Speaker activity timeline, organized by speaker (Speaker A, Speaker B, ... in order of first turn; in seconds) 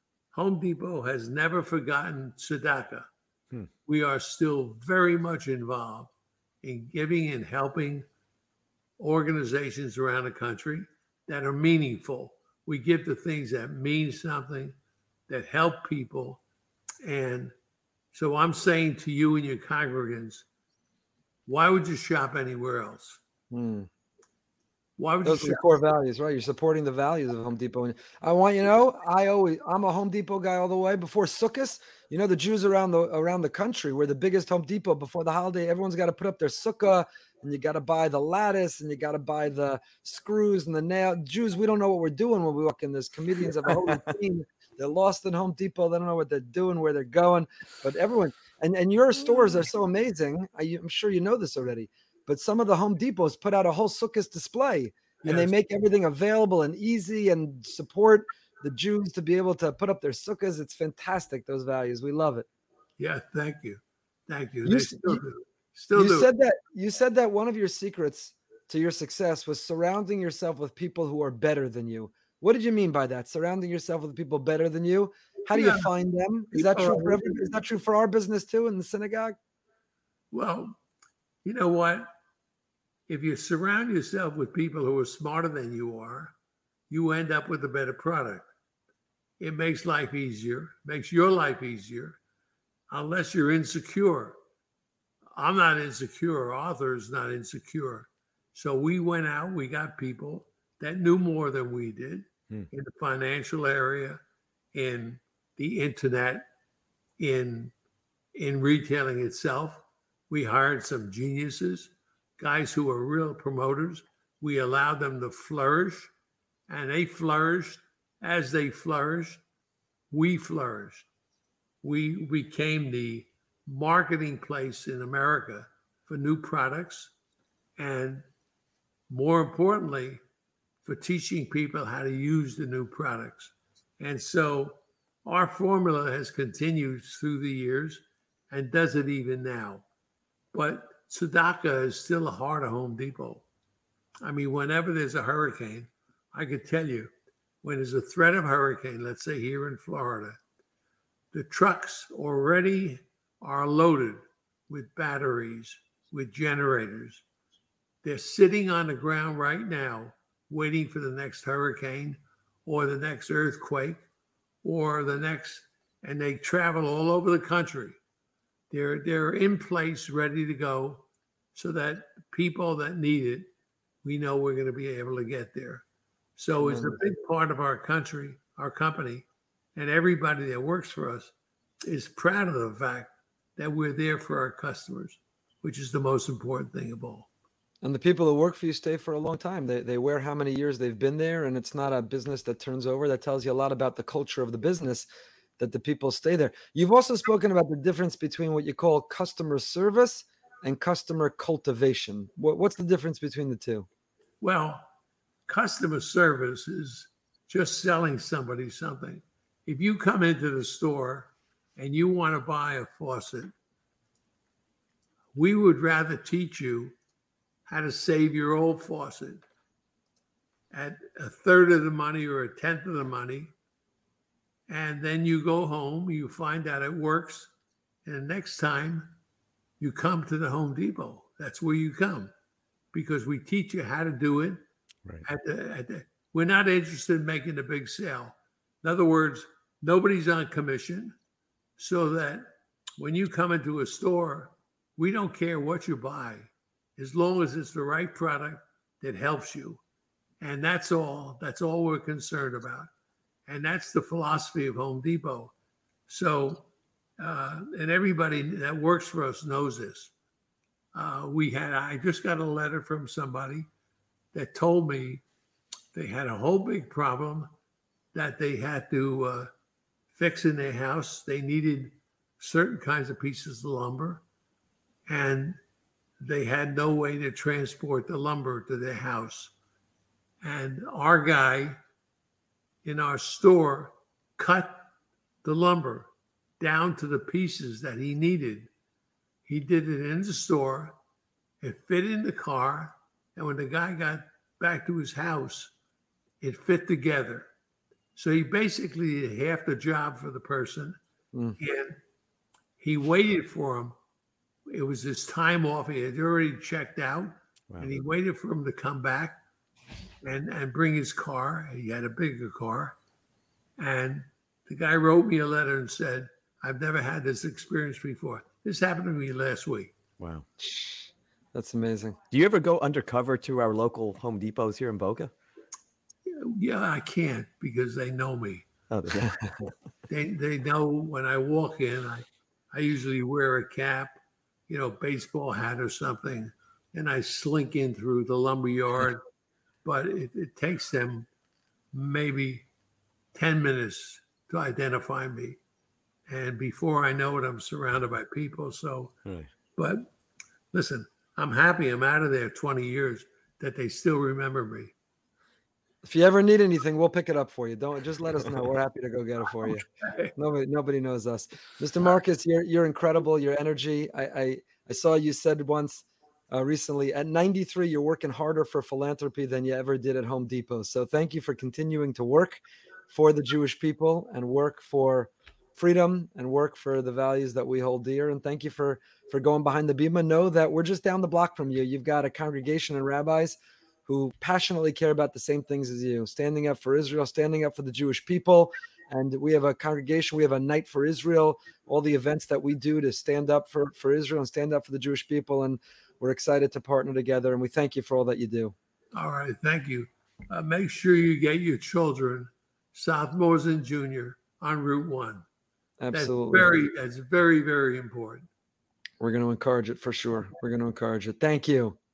Speaker A: 0.3-3.1, 3.9-6.1, 6.6-8.1, 9.0-14.8, 15.3-16.4, 17.0-17.5, 18.1-20.4, 21.5-23.2, 25.0-25.6, 55.2-55.5, 63.0-66.3, 75.5-75.9, 76.5-77.6, 80.3-80.8, 81.4-82.1, 83.1-86.3, 86.9-88.5, 89.4-92.2, 92.9-94.4, 95.3-104.2, 104.7-106.5, 107.2-107.7, 108.3-116.1, 116.7-119.4, 120.1-121.1, 121.8-127.1, 127.8-128.2, 129.1-130.2, 130.8-139.8, 140.5-143.4, 144.2-147.1, 147.6-150.4, 151.3-157.2, 158.0-164.0, 164.6-168.0, 168.7-173.5, 174.0-175.8, 176.4-181.3, 181.8-187.3, 204.4-204.9, 205.5-213.5, 215.3-216.9, 217.7-219.4, 220.7-223.5, 224.7-227.5, 228.1-229.1, 229.8-232.3, 232.9-234.6, 235.2-241.1, 241.8-249.8, 250.4-252.9, 253.5-255.5, 256.1-256.7, 257.2-260.1, 260.9-263.7, 264.3-265.2, 265.9-267.5, 268.1-269.5, 270.1-274.2, 275.1-275.6, 276.2-279.5, 280.4-281.8, 282.8-284.9, 285.4-288.7, 289.5-290.9, 291.6-295.7, 296.4-297.5, 298.2-301.0, 301.6-302.0, 302.8-303.9, 304.7-309.4, 310.2-313.0, 313.8-319.9, 326.3-328.7, 330.1-334.2, 334.7-339.2, 339.9-341.3, 341.9-342.7, 343.3-345.6, 346.3-349.1, 349.8-350.1, 350.7-354.9, 359.7-360.3, 399.1-405.4, 406.1-408.5
Speaker B: 23.5-23.9, 25.2-62.5, 64.6-65.2, 65.9-79.4, 176.6-177.0, 187.8-195.1, 195.6-203.9, 301.3-301.6, 320.6-322.2, 356.0-398.7, 406.0-406.7, 409.2-412.0
Speaker C: 320.2-320.5, 322.3-325.3, 328.9-329.7